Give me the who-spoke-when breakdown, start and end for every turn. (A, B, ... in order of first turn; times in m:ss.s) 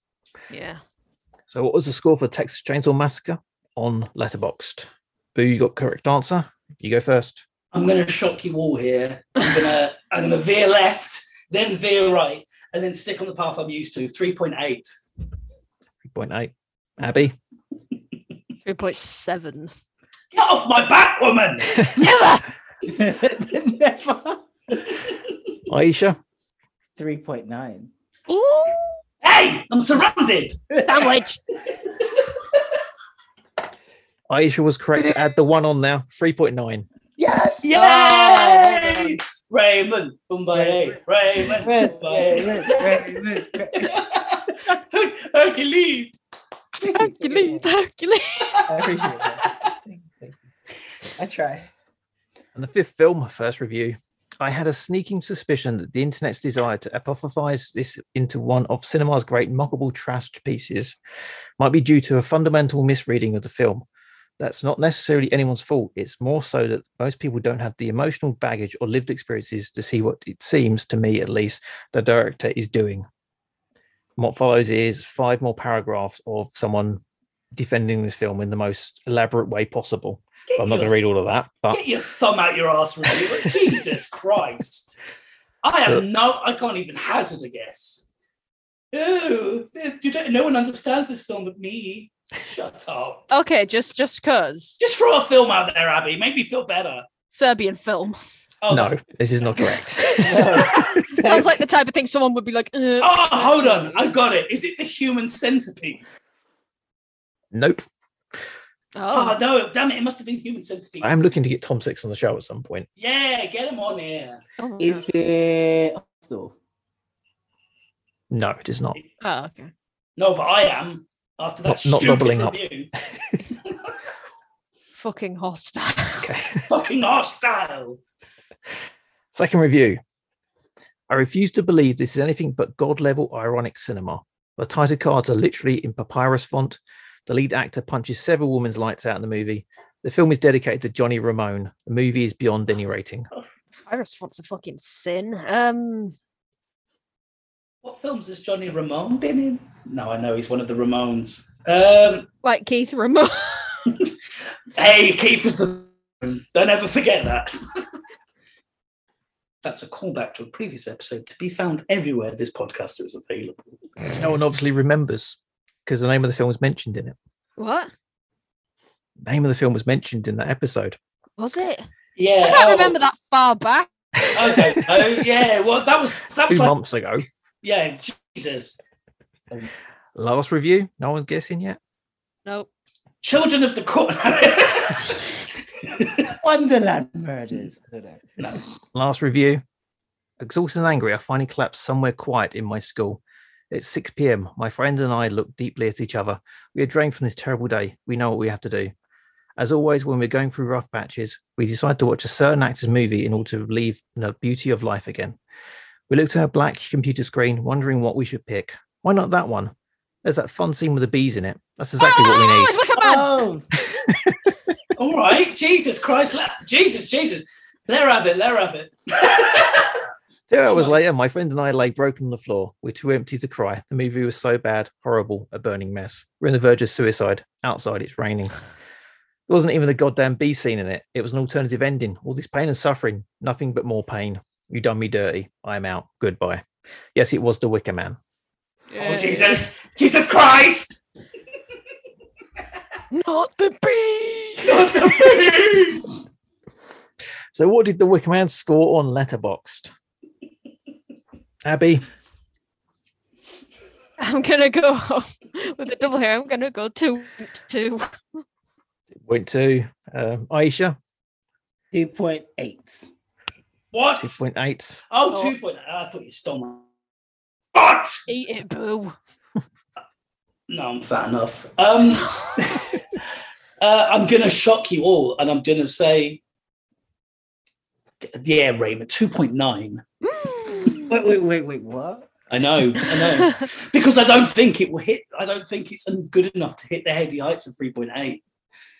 0:00.5-0:00.8 A
0:01.5-0:07.4 B
0:07.7-0:14.9 C
0:16.0-0:17.3 B
0:18.6-0:19.7 A
0:20.3-0:21.8 C
0:21.7-0:22.5 A
0:22.8-0:25.0 D
0:25.7-0:26.2 B
0:27.0-0:27.9 D
0:28.3-0:29.0 A
0:29.2-0:30.6 C
0:30.7-0:31.2 D
0:30.8-0:31.4 A
0:34.3-0:36.8 B
0:37.2-0:37.7 D
0:37.6-0:46.1 C
0:37.7-0:39.2 A
0:40.5-0:44.0 D
0:46.8-0:47.7 D
0:46.8-0:48.7 A
0:48.7-0:50.4 D
0:51.1-0:51.7 D
0:52.5-1:01.0 B
1:01.6-1:03.8 B
1:04.4-1:13.0 B
1:14.2-1:17.0 B
1:17.5-1:21.8 B
1:20.5-1:21.1 C
1:21.7-1:25.0 C
1:25.6-1:28.0 C
1:28.9-1:33.3 C
1:33.3-1:34.8 A
1:34.8-1:37.1 C
1:37.3-1:38.2 A
1:38.6-1:39.0 C
1:38.7-1:41.0 B
1:39.6-1:44.1 A
1:40.2-1:41.5 D
1:43.0-1:46.0 C
1:47.5-1:47.8 B
1:49.0-1:49.4 A
1:49.1-1:51.1 C
1:51.0-1:52.9 B
1:53.0-1:54.4 C
1:54.6-1:55.1 A
1:54.8-1:56.5 D
1:58.3-1:59.0 B
1:59.2-1:59.7 A
2:00.2-2:02.9 C
2:01.6-2:02.6 B
2:03.6-2:03.9 C
2:04.9-2:06.3 A
2:06.2-2:06.6 B
2:06.7-2:08.0 C
2:09.3-2:10.0 B
2:11.1-2:23.3 B
2:23.9-2:26.1 A
2:27.8-2:32.3 C
2:32.4-2:33.9 A
2:34.7-2:37.5 C
2:39.6-2:43.8 C
2:44.1-2:47.2 B
2:47.6-2:47.9 A
2:49.2-2:51.0 B
2:51.4-2:51.8 A
2:52.2-2:53.0 C
2:52.4-2:53.9 A
2:54.3-2:56.7 C
2:56.5-2:57.2 B
2:57.6-2:58.8 C
3:00.2-3:01.8 B
3:03.2-3:06.3 C
3:06.2-3:08.6 D
3:08.9-3:09.6 B
3:10.4-3:18.9 B
3:19.6-3:25.4 B
3:26.1-3:29.7 B
3:30.2-3:32.7 B
3:32.0-3:33.3 A
3:33.0-3:33.7 D
3:33.9-3:34.4 B
3:35.0-3:40.0 C
3:40.5-3:48.6 B
3:40.6-3:41.0 C
3:49.5-3:56.6 B
3:57.1-3:58.2 B
3:58.9-3:59.6 A
3:59.0-4:01.0 C
4:03.1-4:05.3 A
4:04.6-4:06.2 C
4:07.5-4:09.9 B
4:11.6-4:12.0 B
4:14.2-4:18.1 A
4:19.2-4:21.0 B
4:21.9-4:23.1 D
4:23.9-4:24.4 C
4:24.2-4:25.0 B
4:25.1-4:26.8 C
4:27.7-4:28.2 C
4:28.3-4:29.1 A
4:30.7-4:33.2 C
4:32.2-4:32.8 A
4:33.8-4:36.4 C
4:38.2-4:40.0 C
4:40.2-4:41.1 A
4:41.0-4:42.3 D
4:42.5-4:48.4 C